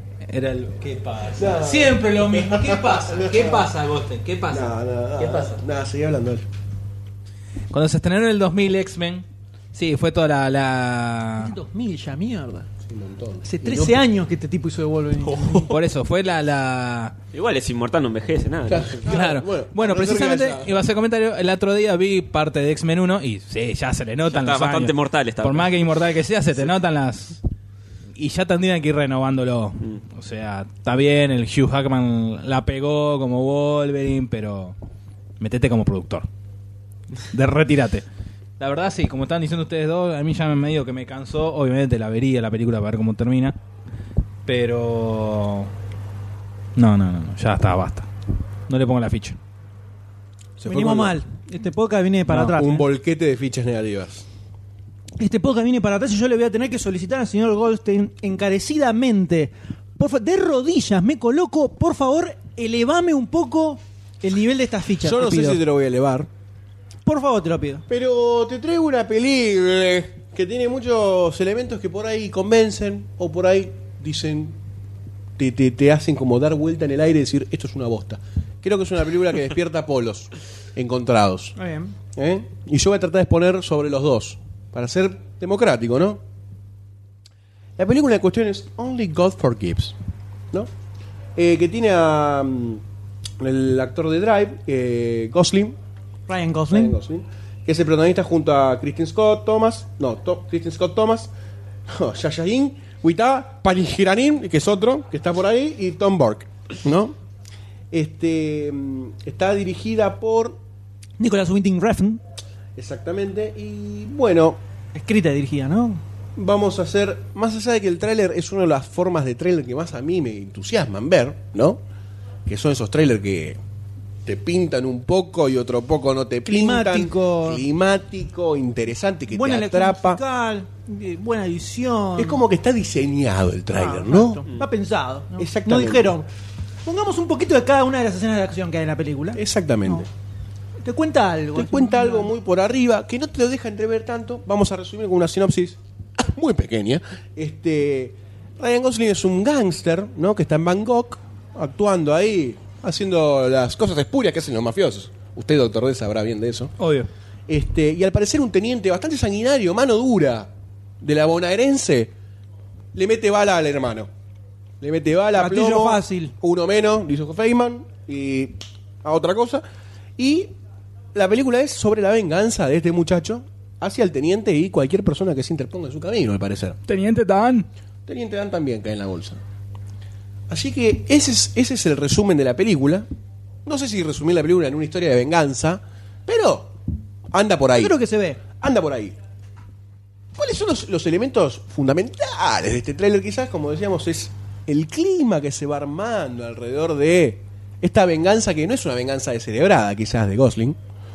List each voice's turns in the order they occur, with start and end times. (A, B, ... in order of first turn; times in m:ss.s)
0:00.2-0:05.6 A
0:01.3-0:03.7 B
0:04.5-0:06.4 B
0:07.7-0:11.5 A
0:11.4-0:12.7 C
0:12.8-0:14.0 B
0:13.4-0:15.7 C
0:15.6-0:17.2 A
0:17.3-0:19.0 D
0:18.7-0:20.9 B
0:19.0-0:27.4 A
0:24.3-0:25.8 D
0:28.1-0:34.8 A
0:35.4-0:36.3 A
0:37.3-0:38.0 A
0:38.6-0:43.6 A
0:44.4-0:45.7 A
0:46.8-0:48.1 A
0:48.7-0:49.4 A
0:50.6-0:51.2 B
0:50.6-0:52.8 C
0:52.4-0:54.2 B
0:55.2-1:05.6 C
1:05.0-1:06.3 B
1:07.0-1:07.8 C
1:07.9-1:14.6 B
1:15.4-1:21.5 B
1:21.6-1:21.9 C
1:22.1-1:26.2 B
1:27.8-1:30.0 B
1:31.4-1:32.8 B
1:33.4-1:35.8 B
1:36.3-1:37.0 C
1:36.7-1:41.3 B
1:41.9-1:47.1 B
1:47.9-1:50.6 B
1:51.2-1:52.2 C
1:52.8-1:54.6 B
1:54.9-1:56.0 C
1:56.4-2:01.8 B
2:02.4-2:03.6 B
2:04.2-2:10.2 B
2:06.4-2:07.6 C
2:09.3-2:12.4 C
2:12.2-2:14.4 B
2:13.7-2:16.2 C
2:15.4-2:16.2 B
2:16.8-2:20.1 C
2:19.3-2:20.1 B
2:20.8-2:22.3 C
2:21.5-2:36.7 B
2:36.8-2:37.1 A
2:37.5-2:40.5 B
2:41.0-2:42.1 B
2:42.9-2:44.1 B
2:44.8-2:49.6 B
2:45.3-2:46.3 C
2:50.2-2:50.5 B
2:51.1-2:56.8 B
2:56.8-2:57.7 A
2:58.0-2:59.4 B
3:00.5-3:03.1 B
3:03.6-3:06.7 B
3:07.3-3:07.9 B
3:07.8-3:08.4 C
3:08.5-3:09.2 B
3:10.4-3:20.8 B